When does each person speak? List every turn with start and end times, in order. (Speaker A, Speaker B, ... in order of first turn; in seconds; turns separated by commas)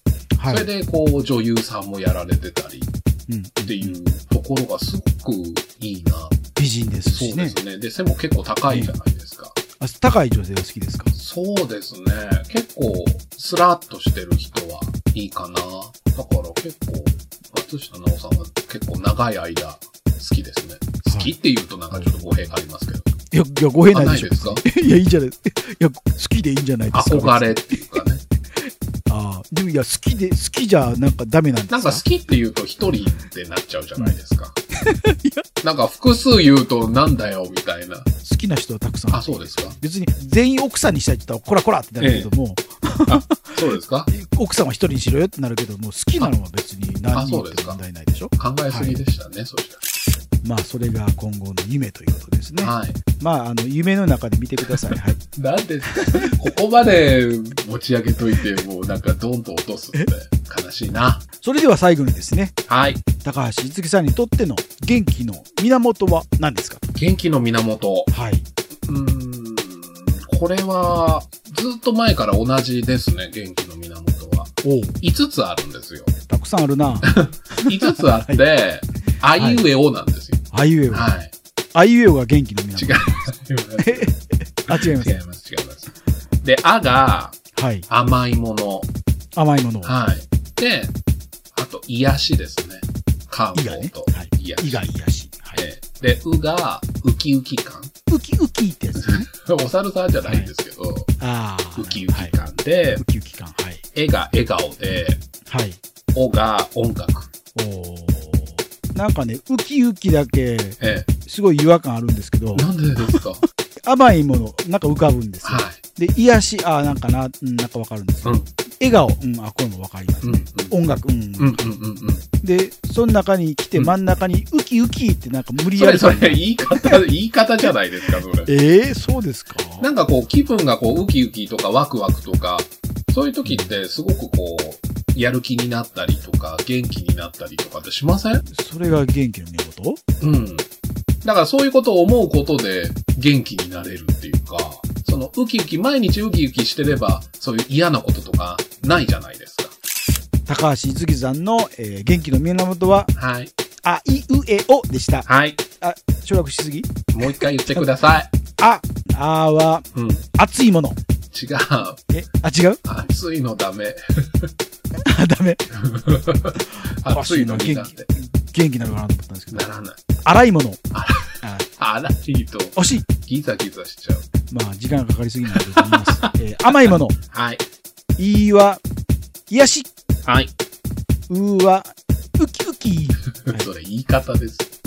Speaker A: 0.4-0.7, Speaker B: 0.5-2.9, Speaker A: 3.3-4.0, Speaker B: 3.6-6.4, Speaker A: 6.6-7.6, Speaker B: 7.0-9.6, Speaker A: 8.7-8.9, Speaker A: 9.8-11.1, Speaker B: 11.2-23.1, Speaker A: 21.1-21.4, Speaker A: 21.9-22.3, Speaker A: 23.3-27.8, Speaker B: 23.9-24.6, Speaker B: 26.9-28.2, Speaker A: 29.1-32.0, Speaker B: 31.7-34.6, Speaker A: 34.9-35.4, Speaker B: 35.6-38.1, Speaker A: 38.2-43.6, Speaker B: 39.1-39.8, Speaker B: 42.0-42.3, Speaker B: 43.1-44.1, Speaker A: 44.1-49.0, Speaker B: 47.1-47.8, Speaker B: 48.4-49.8, Speaker A: 50.4-55.2, Speaker B: 52.6-53.0, Speaker B: 54.9-61.2, Speaker A: 61.4-62.5, Speaker B: 62.7-63.0, Speaker A: 63.2-66.8, Speaker B: 67.0-68.1, Speaker A: 68.1-68.5, Speaker B: 68.9-76.1, Speaker A: 74.6-75.0, Speaker A: 76.2-78.4, Speaker B: 77.0-81.3, Speaker A: 79.3-79.7, Speaker A: 80.5-81.1, Speaker A: 81.7-84.2, Speaker B: 82.8-84.1, Speaker A: 84.7-85.2, Speaker B: 84.7-85.9, Speaker B: 86.4-88.9, Speaker A: 87.5-87.9, Speaker A: 89.4-90.0, Speaker B: 89.8-91.0, Speaker B: 91.5-94.9, Speaker A: 93.5-95.6, Speaker B: 95.5-97.9, Speaker A: 98.1-99.3, Speaker B: 99.0-101.2, Speaker A: 100.2-100.5, Speaker A: 101.2-102.5, Speaker B: 101.8-103.0, Speaker A: 103.0-103.8, Speaker B: 103.9-105.2, Speaker A: 105.5-105.8, Speaker B: 106.1-107.3, Speaker A: 107.5-112.7, Speaker B: 110.8-111.1, Speaker B: 112.5-113.4, Speaker A: 113.9-121.8, Speaker B: 115.4-115.8, Speaker B: 120.2-120.8, Speaker B: 121.4-122.2, Speaker A: 122.3-127.0, Speaker B: 125.7-128.5, Speaker A: 128.4-129.9, Speaker B: 129.8-138.4, Speaker A: 133.4-133.7, Speaker A: 138.5-140.0, Speaker B: 140.2-140.7, Speaker B: 141.2-149.8, Speaker A: 150.5-153.1, Speaker B: 153.2-153.5, Speaker A: 153.8-155.3, Speaker B: 155.2-155.6, Speaker A: 155.8-157.8, Speaker B: 157.1-158.3, Speaker A: 158.6-159.9, Speaker B: 159.9-160.3, Speaker A: 160.4-161.0, Speaker B: 161.3-162.0, Speaker A: 162.1-162.8, Speaker B: 162.8-164.5, Speaker A: 165.1-165.7, Speaker B: 165.7-168.1, Speaker A: 166.6-169.7, Speaker B: 169.5-170.0, Speaker A: 170.2-170.8, Speaker B: 170.9-171.2, Speaker B: 171.8-174.3, Speaker A: 172.8-173.1, Speaker A: 174.5-177.2, Speaker B: 175.8-176.2, Speaker B: 177.3-177.6, Speaker A: 178.2-178.8, Speaker A: 179.5-179.9, Speaker B: 180.3-180.5, Speaker A: 181.3-183.7, Speaker B: 183.4-184.7